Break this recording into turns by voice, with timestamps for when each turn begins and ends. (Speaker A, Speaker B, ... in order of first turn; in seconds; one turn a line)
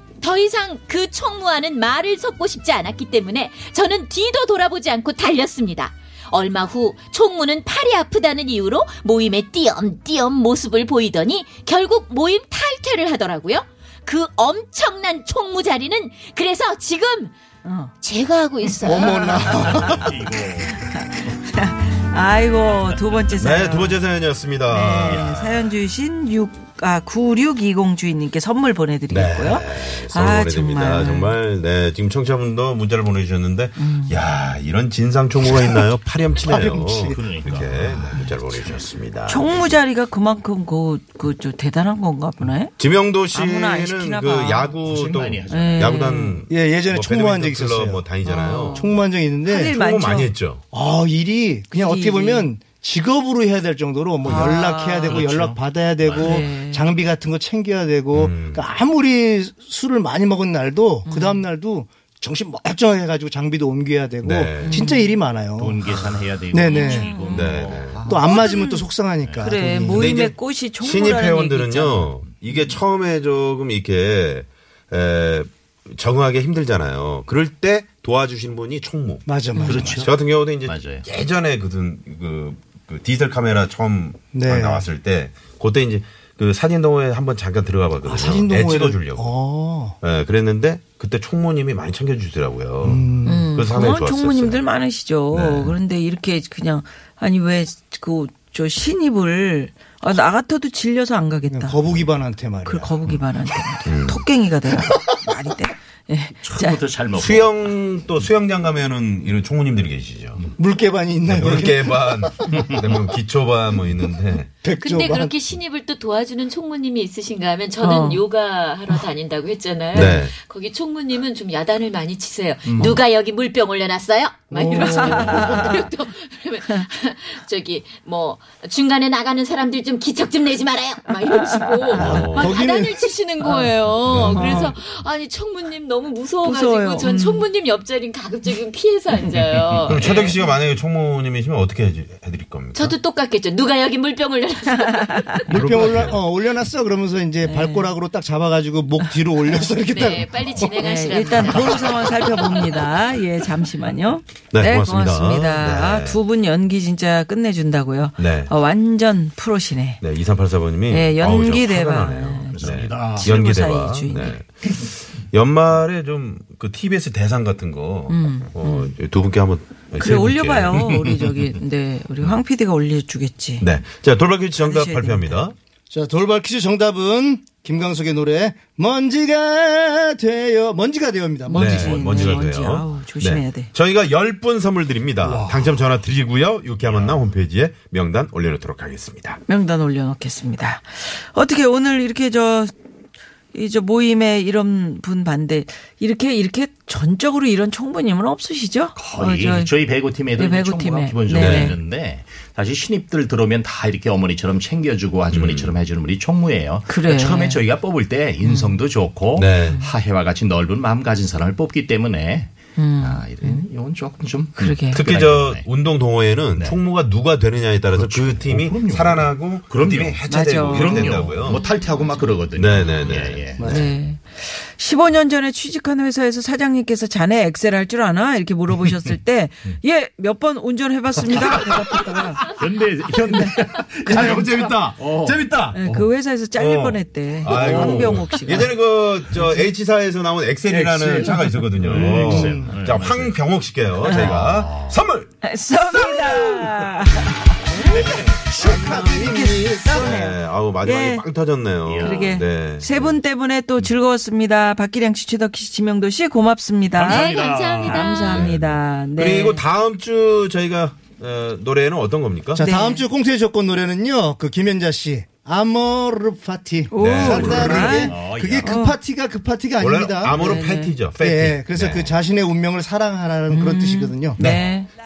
Speaker A: 0.2-17.3
Speaker B: 17.6-17.9
Speaker A: 18.0-19.4
Speaker C: 18.8-20.1
Speaker D: 19.6-20.8
Speaker B: 20.8-24.0
Speaker E: 23.4-25.7
Speaker B: 24.7-31.4
Speaker E: 29.1-39.6
Speaker B: 33.8-34.1
Speaker C: 36.4-37.3
Speaker D: 37.1-38.6
Speaker B: 39.3-42.8
Speaker E: 42.8-48.9
Speaker B: 43.3-44.7
Speaker D: 44.8-46.0
Speaker B: 45.5-46.4
Speaker C: 46.5-48.1
Speaker B: 48.2-50.3
Speaker C: 48.7-49.8
Speaker E: 49.7-50.6
Speaker C: 50.7-67.2
Speaker B: 51.7-52.5
Speaker B: 54.2-55.2
Speaker D: 55.0-56.4
Speaker B: 56.2-56.9
Speaker E: 58.1-58.6
Speaker B: 61.0-61.5
Speaker E: 64.2-64.8
Speaker B: 64.6-65.1
Speaker D: 65.6-68.4
Speaker B: 66.7-72.8
Speaker E: 67.2-68.1
Speaker C: 68.0-70.1
Speaker D: 69.2-69.5
Speaker E: 69.9-89.3
Speaker C: 79.2-80.1
Speaker D: 79.6-81.1
Speaker C: 84.3-84.9
Speaker C: 88.0-90.0
Speaker E: 90.0-94.6
Speaker C: 92.8-93.5
Speaker B: 93.2-101.8
Speaker E: 95.3-95.8
Speaker C: 101.5-102.9
Speaker B: 102.6-106.8
Speaker E: 103.8-104.3
Speaker D: 106.4-107.7
Speaker E: 107.1-110.4
Speaker C: 110.6-112.7
Speaker E: 111.3-114.5
Speaker C: 114.5-115.3
Speaker A: 114.8-140.4
Speaker B: 117.8-118.2
Speaker E: 119.9-120.3
Speaker D: 122.7-123.0
Speaker C: 124.5-125.5
Speaker B: 124.8-125.8
Speaker E: 125.3-125.8
Speaker E: 131.9-132.6
Speaker C: 132.0-133.1
Speaker B: 133.4-134.7
Speaker E: 134.0-134.7
Speaker B: 136.4-137.4
Speaker E: 139.8-142.9
Speaker A: 142.7-145.5
Speaker C: 145.5-150.7
Speaker E: 145.5-146.2
Speaker B: 147.4-147.9
Speaker A: 149.8-152.7
Speaker B: 150.8-160.0
Speaker C: 151.4-151.9
Speaker E: 154.5-156.2
Speaker E: 158.2-158.5
Speaker E: 160.0-171.0
Speaker B: 160.9-164.4
Speaker D: 162.5-163.4
Speaker B: 168.1-168.9
Speaker B: 169.9-173.7
Speaker E: 173.6-175.5
Speaker B: 174.6-175.4
Speaker C: 175.9-182.4
Speaker B: 181.5-183.7
Speaker E: 181.5-189.4
Speaker D: 185.2-185.7
Speaker D: 186.8-187.2
Speaker B: 189.5-192.7
Speaker B: 193.5-201.8
Speaker D: 198.9-215.7
Speaker E: 201.3-201.8
Speaker E: 205.3-205.8
Speaker B: 206.9-207.6
Speaker B: 208.4-208.8
Speaker E: 209.3-209.8
Speaker B: 212.8-213.7
Speaker B: 214.6-215.0
Speaker E: 214.8-221.6
Speaker D: 216.5-216.8
Speaker D: 217.8-223.7
Speaker B: 220.3-222.1
Speaker E: 222.5-223.9
Speaker B: 223.6-232.4
Speaker D: 231.2-231.7
Speaker D: 232.4-236.1
Speaker E: 233.8-235.8
Speaker B: 234.1-234.4
Speaker B: 235.7-238.8
Speaker E: 236.5-245.3
Speaker D: 237.5-238.3
Speaker D: 240.7-245.0
Speaker C: 242.1-242.7
Speaker B: 244.0-244.5
Speaker B: 245.4-247.2
Speaker B: 247.7-248.0
Speaker C: 247.8-250.2
Speaker D: 248.0-248.3
Speaker E: 248.5-253.2
Speaker B: 248.7-251.2
Speaker D: 251.8-252.4
Speaker B: 252.0-259.6
Speaker D: 257.0-258.1
Speaker A: 257.0-258.4
Speaker E: 258.1-262.6
Speaker C: 262.5-270.5
Speaker B: 262.6-263.1
Speaker B: 266.9-269.0
Speaker E: 267.0-268.0
Speaker D: 267.2-268.8
Speaker E: 269.8-272.2
Speaker B: 270.3-270.9
Speaker C: 271.2-274.4
Speaker B: 273.5-274.9
Speaker E: 274.4-274.6